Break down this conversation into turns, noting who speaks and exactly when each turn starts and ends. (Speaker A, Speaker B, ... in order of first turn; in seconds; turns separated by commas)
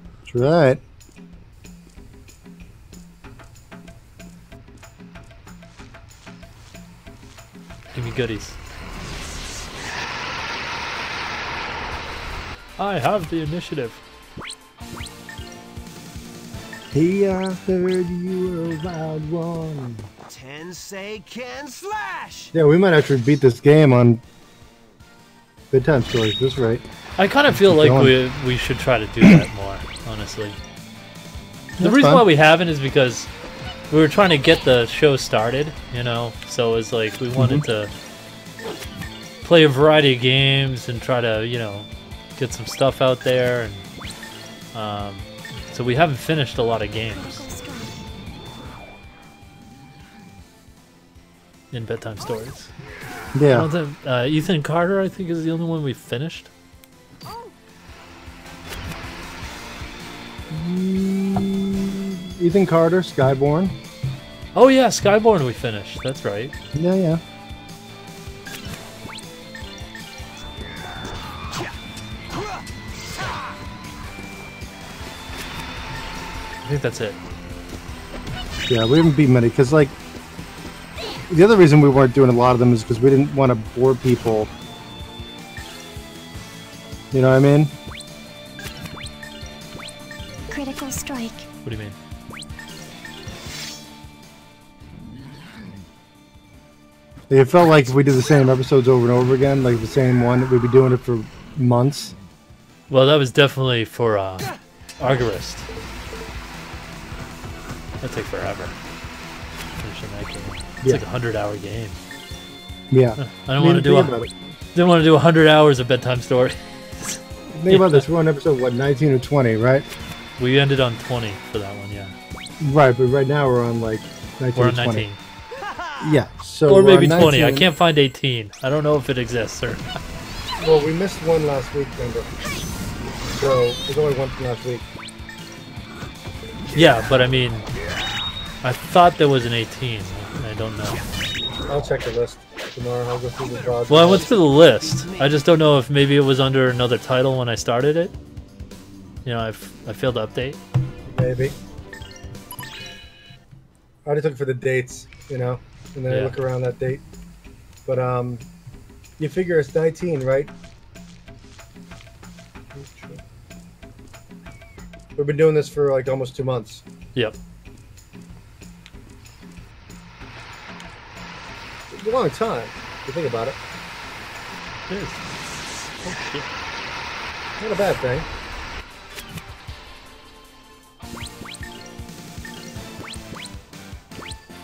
Speaker A: 0.3-0.8, Speaker B: 7.9-8.6, Speaker B: 12.8-14.0, Speaker A: 16.9-20.1, Speaker C: 20.3-22.5, Speaker A: 22.5-24.2, Speaker A: 25.7-26.8, Speaker B: 27.2-30.6, Speaker A: 27.5-28.2, Speaker A: 31.8-32.3, Speaker B: 31.8-33.3, Speaker B: 33.9-37.9, Speaker A: 37.4-37.6, Speaker B: 39.4-43.9, Speaker B: 44.7-47.5, Speaker D: 47.1-48.0, Speaker B: 51.7-52.7, Speaker A: 53.3-53.7, Speaker B: 53.5-56.5, Speaker D: 57.2-57.5, Speaker A: 60.5-63.8, Speaker B: 64.5-66.5, Speaker A: 66.7-67.2, Speaker C: 72.3-72.7, Speaker B: 76.6-77.2, Speaker A: 78.7-80.0, Speaker A: 81.3-84.5, Speaker A: 87.1-87.7, Speaker D: 90.5-91.5, Speaker B: 91.7-92.0, Speaker A: 97.3-102.2, Speaker B: 102.9-105.7, Speaker B: 108.0-108.8, Speaker B: 109.8-112.0, Speaker A: 112.9-114.4, Speaker B: 113.2-114.1, Speaker B: 114.7-118.0, Speaker A: 117.5-119.9, Speaker B: 120.4-122.2, Speaker A: 122.6-125.1, Speaker B: 124.5-125.2, Speaker C: 125.6-126.2, Speaker A: 126.0-127.7, Speaker B: 126.7-129.8, Speaker A: 130.6-132.3, Speaker A: 133.3-134.9, Speaker B: 136.7-137.7, Speaker B: 138.6-141.0, Speaker A: 141.7-144.4, Speaker C: 143.4-145.4, Speaker B: 143.9-148.2, Speaker B: 149.2-150.6, Speaker A: 151.1-151.6, Speaker A: 154.1-157.0, Speaker B: 156.1-156.4, Speaker A: 157.9-158.4, Speaker A: 159.2-160.5, Speaker A: 162.7-163.2, Speaker A: 165.2-166.8, Speaker A: 171.9-173.6, Speaker B: 174.9-175.2, Speaker B: 176.0-176.5, Speaker A: 177.6-178.3